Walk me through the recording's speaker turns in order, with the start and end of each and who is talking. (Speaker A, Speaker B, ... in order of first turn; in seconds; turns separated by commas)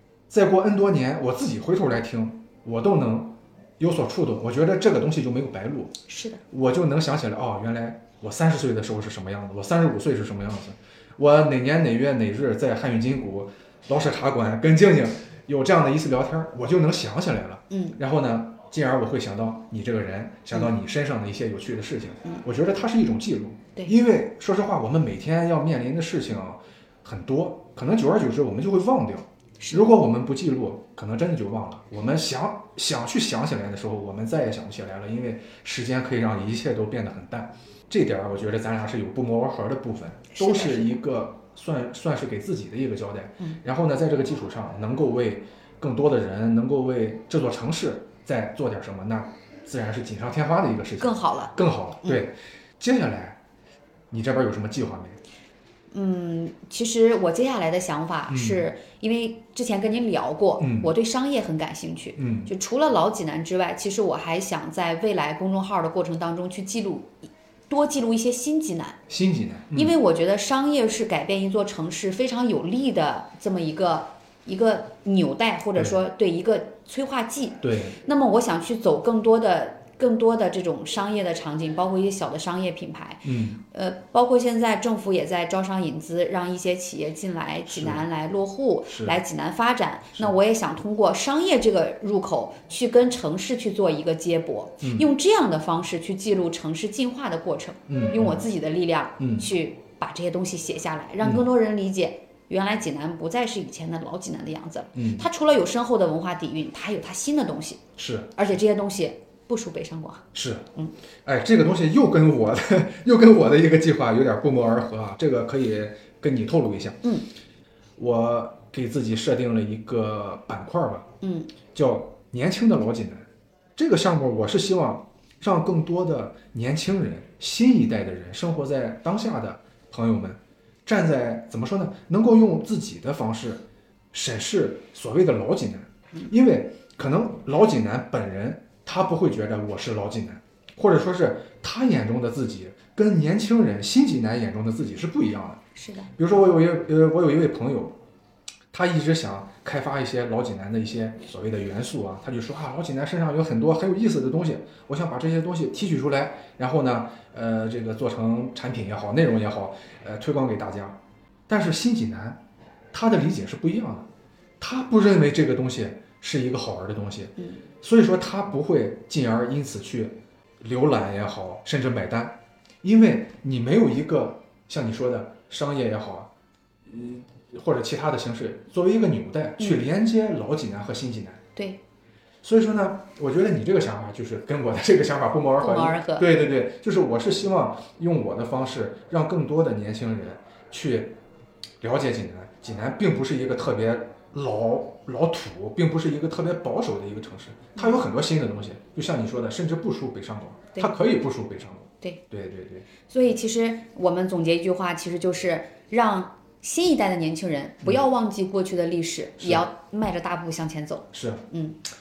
Speaker A: 0.3-6.0, Speaker B: 6.1-6.4, Speaker A: 6.5-53.4, Speaker B: 17.7-18.0, Speaker B: 29.6-29.9, Speaker B: 40.4-41.0, Speaker B: 51.0-52.2, Speaker A: 54.1-55.2, Speaker B: 55.9-69.0, Speaker A: 58.3-58.6, Speaker A: 60.6-60.9, Speaker A: 62.2-62.5, Speaker A: 69.1-69.9, Speaker B: 69.7-107.8, Speaker A: 77.6-78.0, Speaker A: 83.2-83.6, Speaker A: 87.7-88.0, Speaker A: 88.9-89.2, Speaker A: 94.8-95.1, Speaker A: 97.9-98.4, Speaker A: 99.2-99.5, Speaker A: 105.0-105.3, Speaker A: 108.0-108.3, Speaker B: 108.4-110.9, Speaker A: 110.3-110.7, Speaker A: 111.3-117.0, Speaker B: 117.0-117.3, Speaker A: 118.0-121.1, Speaker B: 121.2-121.5, Speaker A: 121.7-123.3, Speaker A: 123.8-145.6, Speaker B: 145.8-146.1, Speaker A: 146.2-148.0, Speaker A: 148.7-162.4, Speaker A: 162.9-164.1, Speaker A: 164.6-176.3, Speaker A: 176.9-181.4, Speaker B: 179.6-179.8, Speaker B: 181.6-181.8, Speaker A: 182.4-191.2, Speaker B: 185.6-186.3, Speaker A: 191.8-202.9, Speaker B: 203.1-211.8, Speaker A: 209.4-209.7, Speaker A: 211.1-211.5